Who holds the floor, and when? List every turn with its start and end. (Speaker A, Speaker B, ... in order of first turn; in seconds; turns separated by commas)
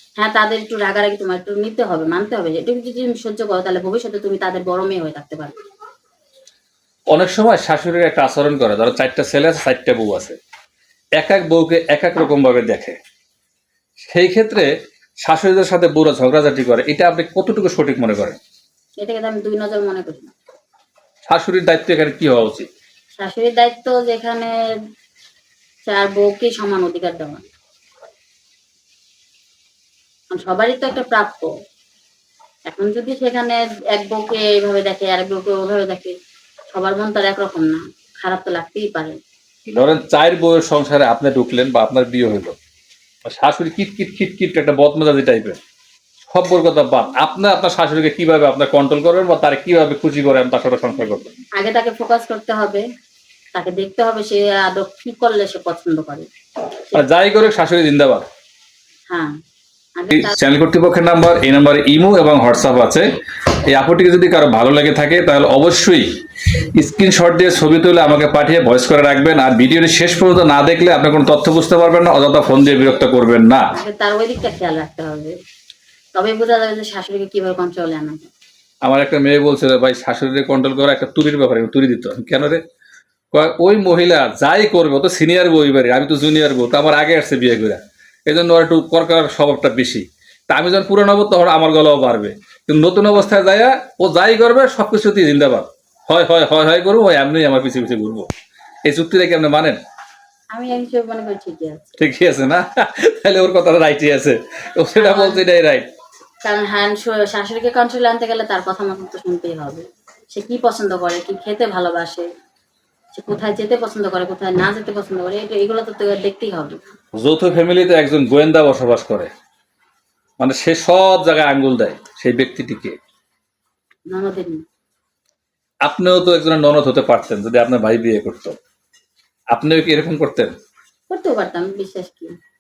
Speaker A: 0.2-5.6, Speaker B: 7.1-10.4, Speaker B: 11.2-13.0, Speaker B: 14.1-14.7, Speaker B: 15.2-18.4, Speaker A: 19.0-20.3, Speaker B: 21.3-22.7, Speaker A: 23.2-24.5, Speaker A: 25.9-27.4, Speaker A: 30.3-31.5, Speaker A: 32.7-36.1, Speaker A: 36.7-39.2, Speaker B: 39.7-42.6, Speaker B: 43.2-45.6, Speaker B: 46.3-51.3, Speaker A: 51.6-52.8, Speaker A: 53.5-56.3, Speaker B: 56.9-58.2, Speaker A: 60.0-60.4, Speaker B: 60.1-63.1, Speaker B: 63.7-66.1, Speaker B: 66.7-73.7, Speaker A: 73.7-75.3, Speaker A: 76.2-78.3, Speaker B: 78.8-82.6, Speaker B: 83.3-98.3, Speaker B: 98.9-99.8, Speaker A: 100.5-102.0, Speaker B: 102.0-105.9, Speaker A: 105.0-105.4, Speaker A: 106.4-112.3, Speaker A: 113.1-116.8, Speaker B: 117.2-119.3, Speaker B: 120.4-123.0, Speaker A: 124.1-124.6, Speaker B: 125.8-128.6, Speaker B: 129.5-130.6, Speaker A: 131.1-132.3